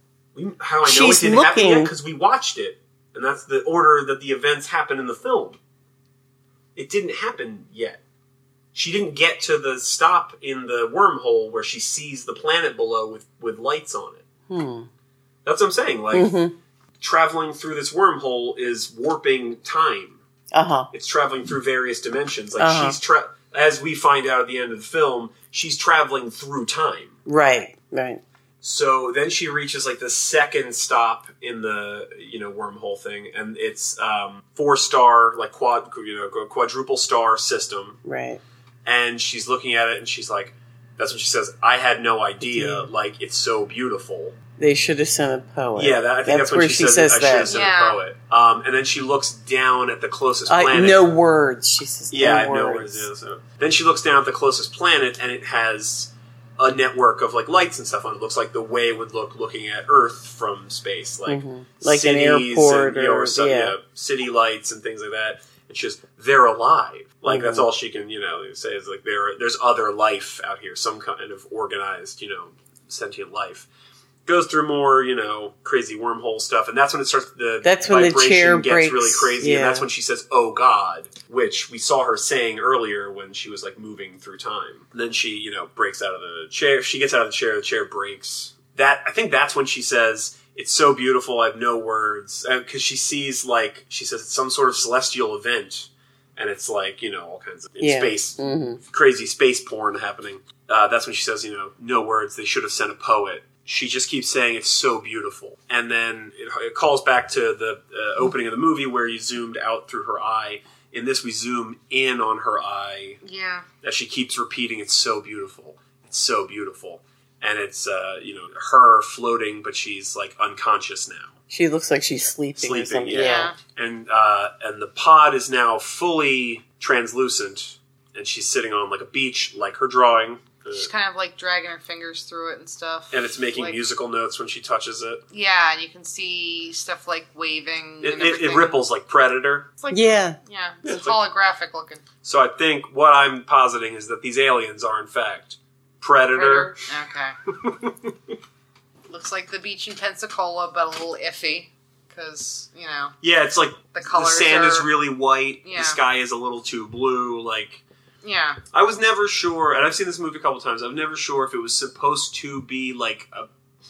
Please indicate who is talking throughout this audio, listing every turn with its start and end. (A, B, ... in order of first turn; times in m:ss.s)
0:00.4-0:05.6 A
0:00.8-0:01.9 B
0:06.8-0:08.0 A
0:08.7-0:14.2 A
0:14.5-0:14.9 B
0:15.4-0:16.4 A
0:16.1-0:16.5 B
0:17.0-0:20.2 A
0:20.5-0:20.9 B
0:20.9-0:27.2 A
0:22.6-0:23.0 B
0:27.3-0:28.2 B
0:28.6-0:38.0 A
0:38.0-0:38.4 B
0:38.8-0:44.4 A
0:42.4-0:42.9 B
0:44.6-0:47.6 B
0:45.8-0:51.1 A
0:47.5-0:48.0 C
0:50.5-0:53.1 B
0:52.1-1:13.7 A
1:01.3-1:03.8 B
1:07.3-1:07.7 B
1:14.3-1:53.2 A
1:17.6-1:19.9 B
1:37.8-1:38.8 B
1:53.2-1:53.7 C
1:53.8-2:01.3 A
2:01.5-2:03.5 B
2:02.6-2:10.9 A
2:03.1-2:03.6 C
2:10.7-2:13.8 C
2:13.1-2:15.2 A
2:15.3-2:18.8 C
2:18.0-2:19.7 A
2:19.8-2:22.0 C
2:19.9-2:20.4 B
2:20.8-2:21.2 A
2:22.2-2:26.7 A
2:26.4-2:27.4 C
2:27.6-2:28.1 A
2:29.1-2:33.2 C
2:33.2-2:37.8 A
2:33.9-2:34.9 C
2:35.6-2:36.0 C
2:38.2-2:38.6 C
2:38.7-2:43.5 A